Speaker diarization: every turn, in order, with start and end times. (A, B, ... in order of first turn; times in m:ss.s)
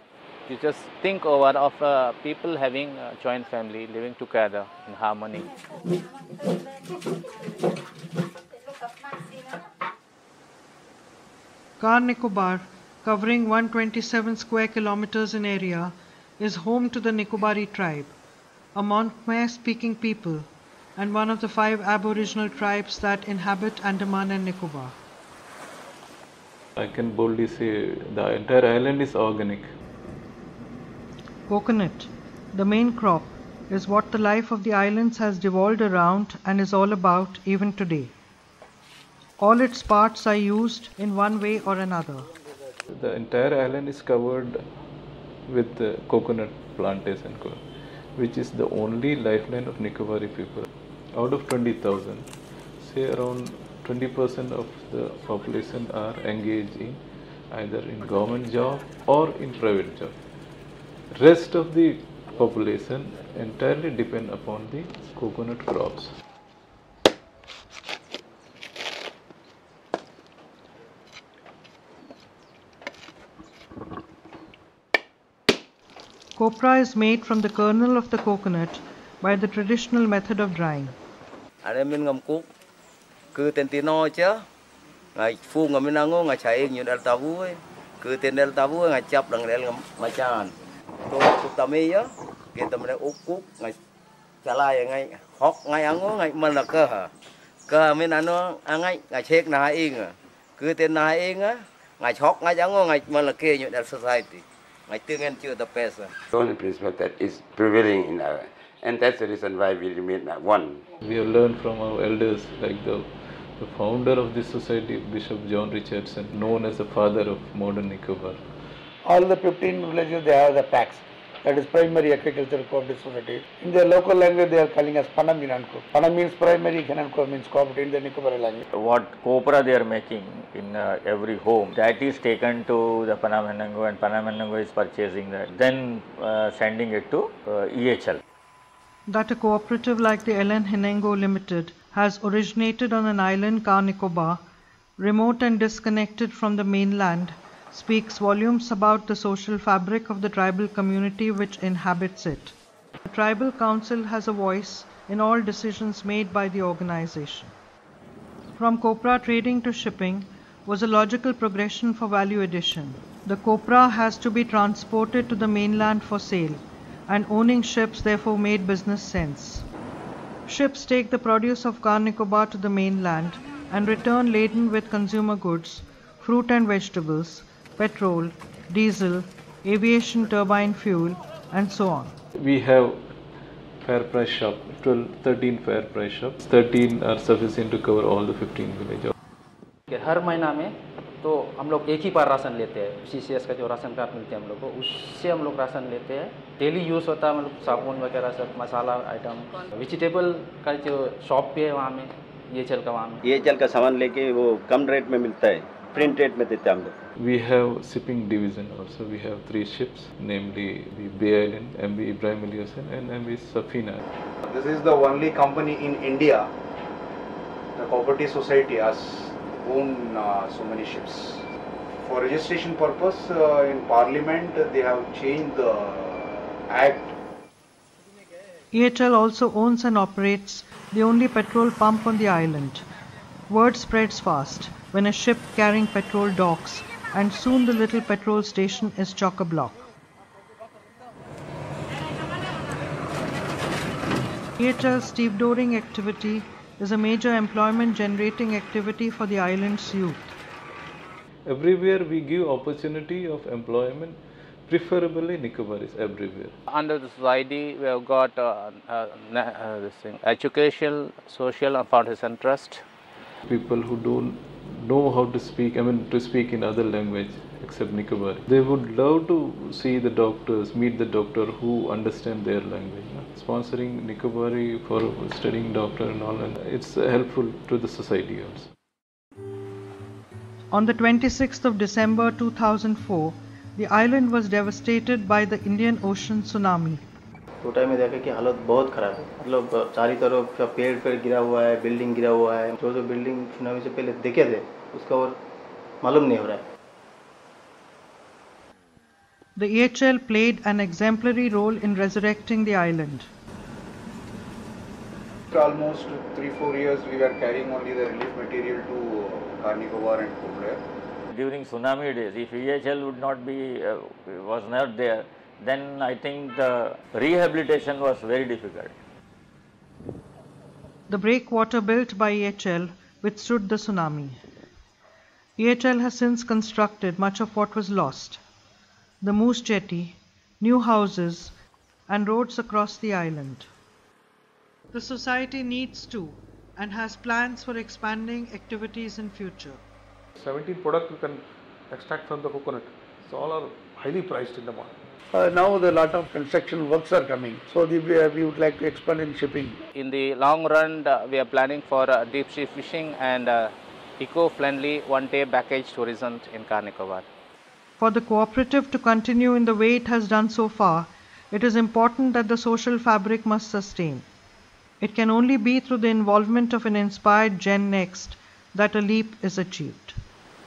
0:00.5-0:05.4 A
0:11.8-0:18.1 B
0:18.7-0:24.9 B
0:26.8-0:29.7 C
0:31.5-0:38.1 B
0:39.4-0:42.2 B
0:42.9-0:44.6 C
0:45.5-0:47.6 C
0:48.2-0:57.0 C
0:57.5-1:00.2 C
1:01.1-1:06.1 C
1:16.4-1:20.9 B
1:21.6-1:22.5 D
1:23.3-1:24.4 D
1:25.2-1:30.5 D
1:31.1-1:33.8 D
1:34.4-1:37.1 D
1:37.7-1:46.1 D
1:46.3-1:50.8 E
1:51.0-1:53.0 C
1:53.6-1:58.4 C
1:59.0-2:08.6 F
2:08.7-2:18.2 G
2:19.1-2:24.4 B
2:25.0-2:37.5 B
2:38.6-2:49.6 B
2:50.5-3:02.1 B
3:02.4-3:03.1 C
3:03.8-3:09.1 C
3:09.9-3:23.2 H
3:23.2-3:26.9 I
3:27.2-3:34.0 C
3:34.4-3:36.5 J
3:37.8-3:41.5 J
3:42.0-3:47.1 J
3:48.7-3:52.8 B
3:53.5-3:59.8 B
4:04.6-4:10.3 B
4:11.4-4:16.6 C
4:16.7-4:22.8 A
4:23.5-4:38.7 C
4:40.7-4:47.0 B
4:47.6-4:55.4 K
4:56.0-4:56.6 K
4:59.6-5:03.3 B
5:05.5-5:10.8 J
5:11.3-5:18.9 G
5:21.1-5:24.4 B
5:25.6-5:28.4 B
5:29.2-5:31.5 B
5:32.1-5:33.7 B
5:34.9-5:39.8 B
5:40.4-5:44.9 L
5:45.3-5:49.8 F
5:49.9-5:57.3 A
5:58.0-6:04.2 B
6:05.0-6:10.2 B